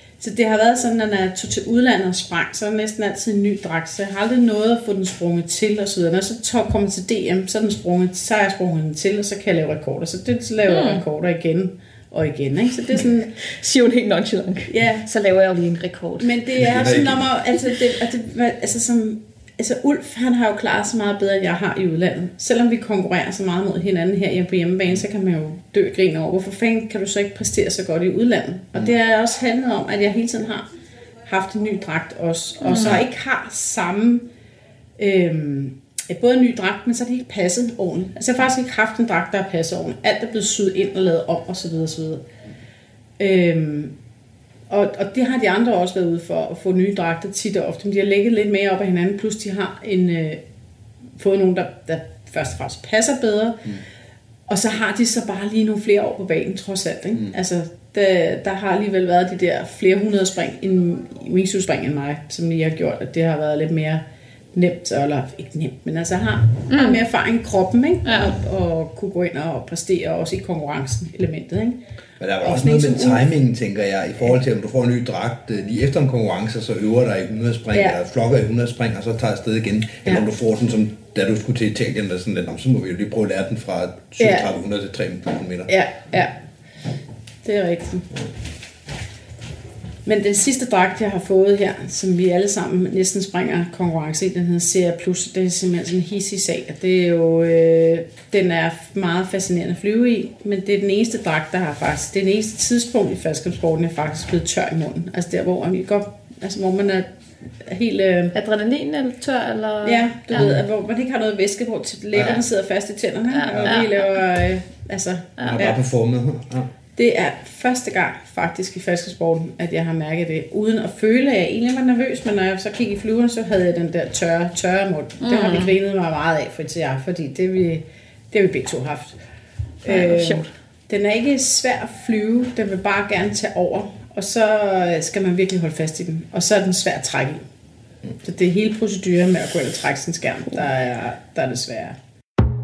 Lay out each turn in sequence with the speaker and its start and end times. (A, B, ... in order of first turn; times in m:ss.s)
0:00.2-0:13.3 A
0:10.7-0:11.0 B
0:13.4-0:16.6 B
0:14.7-0:15.1 A
0:16.2-0:30.7 A
0:16.6-0:17.2 C
0:31.3-0:34.3 A
0:32.6-0:33.0 B
0:32.8-0:33.0 C
0:35.0-0:42.2 A
0:43.2-0:44.0 A
0:44.7-0:50.4 A
0:51.2-0:53.7 A
0:54.5-1:04.0 A
1:04.5-1:11.8 A
1:06.7-1:07.0 B
1:08.0-1:08.3 B
1:12.2-1:25.7 C
1:12.4-1:13.3 A
1:17.7-1:18.0 A
1:24.2-1:24.6 A
1:25.7-1:26.3 A
1:27.4-1:28.2 A
1:30.1-1:47.1 A
1:47.6-1:48.4 A
1:48.4-1:50.6 B
1:49.8-1:55.8 A
1:52.2-1:52.4 C
1:53.3-1:54.2 B
1:53.5-1:53.8 C
1:55.4-1:55.7 B
1:55.5-1:56.7 C
1:57.0-2:09.2 A
2:05.2-2:05.7 B
2:09.8-2:17.4 A
2:09.9-2:10.5 B
2:18.2-2:22.0 A